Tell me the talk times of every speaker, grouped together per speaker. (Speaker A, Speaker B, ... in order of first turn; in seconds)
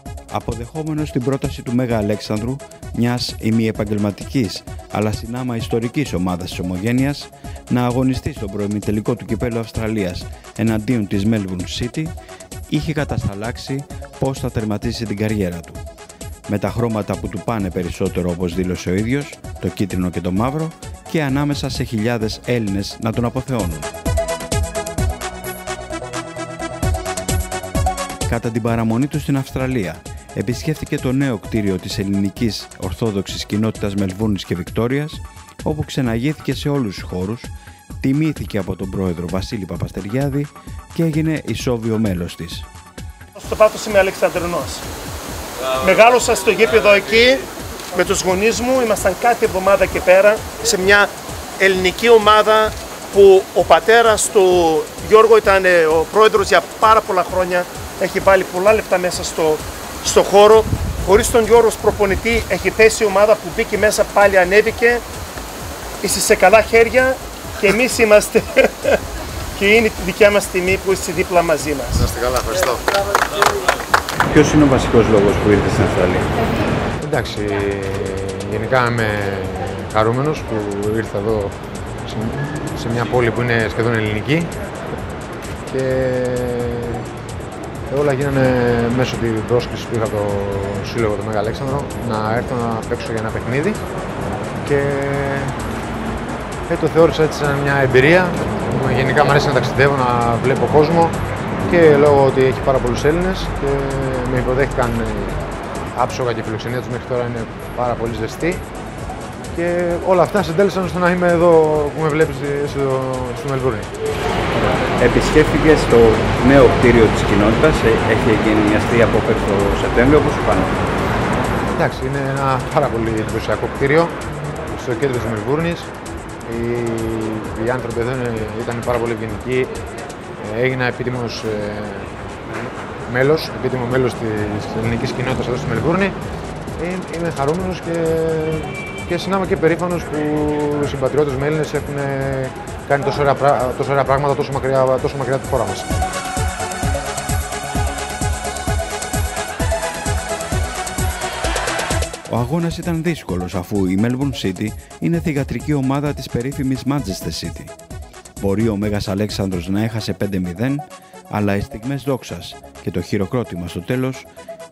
Speaker A: 0.3-12.1, 12.7-15.8, 16.5-23.9, 28.3-42.7, 74.3-76.3, 114.5-120.8, 152.3-157.7, 158.4-164.3
Speaker B: 43.4-44.9, 45.8-65.0, 66.0-69.0, 69.6-72.1
Speaker C: 72.0-72.9, 77.0-84.5, 85.7-87.1, 87.9-93.8, 94.6-95.6, 96.7-105.4, 105.9-108.7, 109.5-113.9, 121.7-125.9, 126.4-129.8, 130.4-132.1, 133.1-136.2, 136.8-145.9